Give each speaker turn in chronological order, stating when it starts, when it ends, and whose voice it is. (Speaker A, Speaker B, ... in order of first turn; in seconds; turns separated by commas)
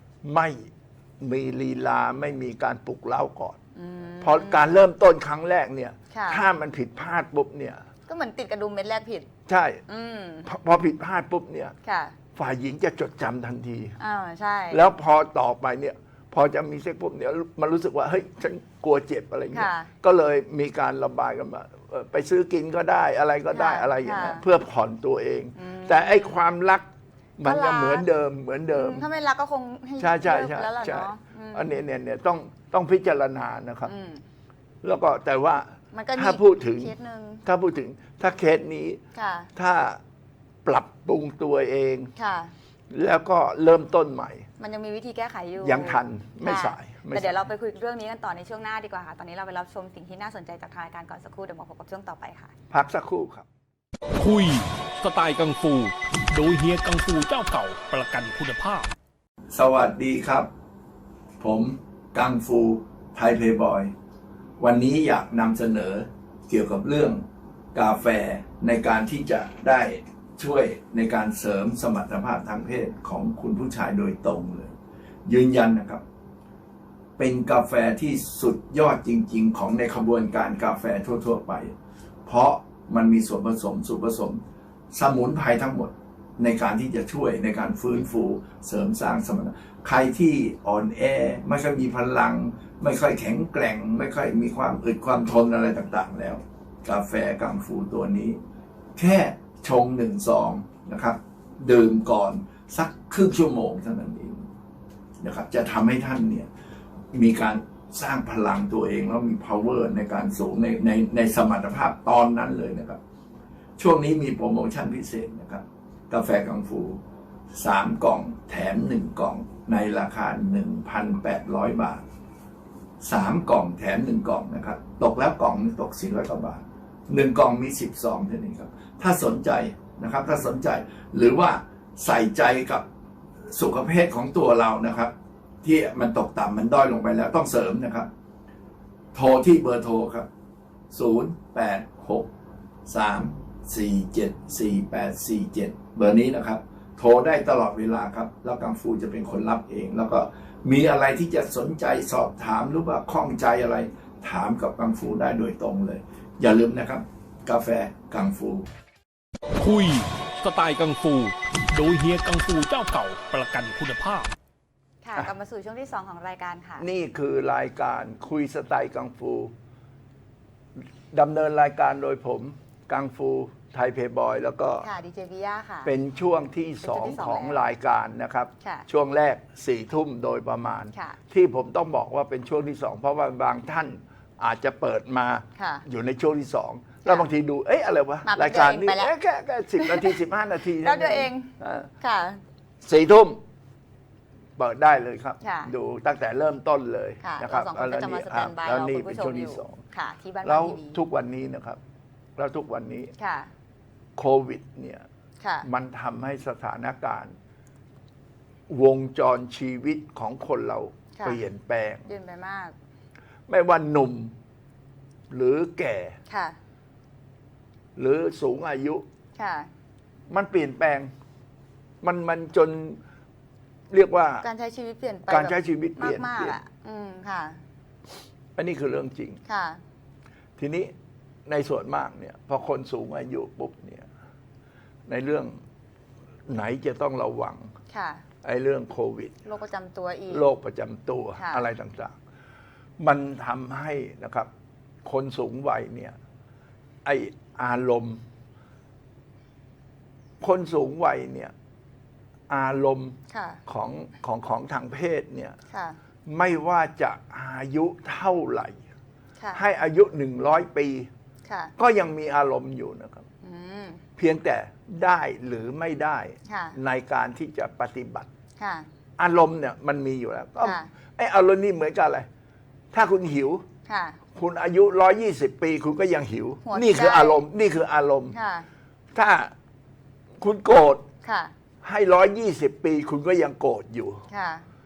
Speaker A: 0.2-3.6, Speaker B: 3.8-4.7, Speaker A: 4.2-7.8, Speaker B: 6.1-6.4, Speaker B: 8.1-9.3, Speaker A: 9.5-9.8, Speaker B: 9.9-10.5, Speaker A: 10.4-11.8, Speaker B: 11.8-12.2, Speaker A: 12.3-14.0, Speaker B: 14.0-14.8, Speaker A: 14.7-26.9, Speaker B: 19.5-19.9, Speaker B: 23.5-24.4, Speaker B: 25.6-26.4, Speaker A: 27.4-29.1, Speaker B: 27.4-28.1, Speaker B: 28.7-31.8, Speaker A: 30.0-33.9, Speaker B: 33.9-34.2, Speaker A: 34.8-39.0, Speaker B: 35.9-37.4, Speaker B: 39.1-39.5, Speaker A: 39.5-40.0, Speaker A: 40.6-42.1, Speaker B: 42.2-42.5, Speaker A: 42.9-44.5, Speaker B: 44.6-52.5, Speaker A: 45.6-47.4, Speaker A: 52.7-53.5, Speaker C: 54.2-58.9, Speaker A: 59.5-60.5, Speaker A: 61.4-63.9, Speaker A: 64.6-76.0, Speaker A: 77.2-81.8, Speaker A: 82.3-84.4, Speaker A: 84.9-98.4, Speaker A: 99.0-104.5, Speaker A: 105.2-106.5, Speaker A: 107.1-113.0, Speaker A: 113.8-117.0, Speaker A: 117.5-122.0, Speaker A: 123.0-132.9, Speaker A: 133.5-138.1, Speaker A: 139.1-140.3, Speaker A: 140.9-142.3, Speaker A: 142.9-158.7, Speaker C: 159.6-164.3, Speaker B: 165.0-166.9, Speaker A: 166.8-169.5, Speaker A: 171.1-174.9, Speaker B: 174.8-175.9, Speaker A: 175.8-191.9, Speaker B: 176.8-177.6, Speaker B: 178.6-178.9, Speaker B: 185.6-185.8, Speaker B: 188.2-189.1, Speaker B: 189.8-190.2, Speaker B: 190.8-192.4, Speaker A: 192.8-193.4, Speaker A: 194.6-199.8, Speaker B: 195.4-195.7, Speaker B: 197.2-201.0, Speaker A: 200.4-201.8, Speaker A: 202.4-203.1, Speaker B: 203.2-203.5, Speaker A: 204.2-205.1, Speaker B: 205.4-205.7, Speaker A: 205.6-207.3, Speaker A: 208.7-212.1, Speaker B: 212.1-212.8, Speaker A: 213.5-214.3, Speaker A: 215.3-216.2, Speaker B: 216.3-216.6, Speaker A: 218.0-219.1, Speaker B: 219.4-219.7, Speaker A: 220.3-221.1, Speaker A: 222.0-223.0, Speaker A: 223.9-224.5, Speaker B: 224.4-227.6, Speaker A: 225.3-226.6, Speaker A: 228.6-229.4, Speaker B: 229.5-229.8, Speaker A: 230.6-230.9, Speaker A: 231.5-234.1, Speaker A: 235.1-235.6, Speaker A: 236.5-237.7, Speaker B: 237.9-238.2, Speaker A: 238.4-239.4, Speaker B: 239.4-240.5, Speaker A: 240.3-242.2, Speaker B: 241.4-241.6, Speaker A: 243.0-244.5, Speaker A: 245.1-246.2, Speaker A: 247.0-248.2, Speaker A: 250.4-251.5, Speaker A: 252.5-255.6, Speaker B: 253.3-253.6, Speaker B: 255.7-256.0, Speaker A: 256.3-258.8, Speaker A: 259.6-261.1, Speaker B: 261.5-261.7, Speaker A: 261.8-263.3, Speaker B: 263.4-264.0, Speaker A: 264.2-268.3, Speaker B: 266.5-266.8, Speaker B: 268.6-268.9, Speaker A: 269.2-272.3, Speaker B: 270.6-270.9, Speaker A: 272.9-273.7, Speaker B: 273.9-274.2, Speaker A: 274.3-278.4, Speaker B: 276.6-277.4, Speaker B: 278.3-278.7, Speaker A: 279.1-279.5, Speaker A: 280.4-281.1, Speaker B: 281.2-281.5, Speaker A: 281.8-284.2, Speaker B: 284.3-284.7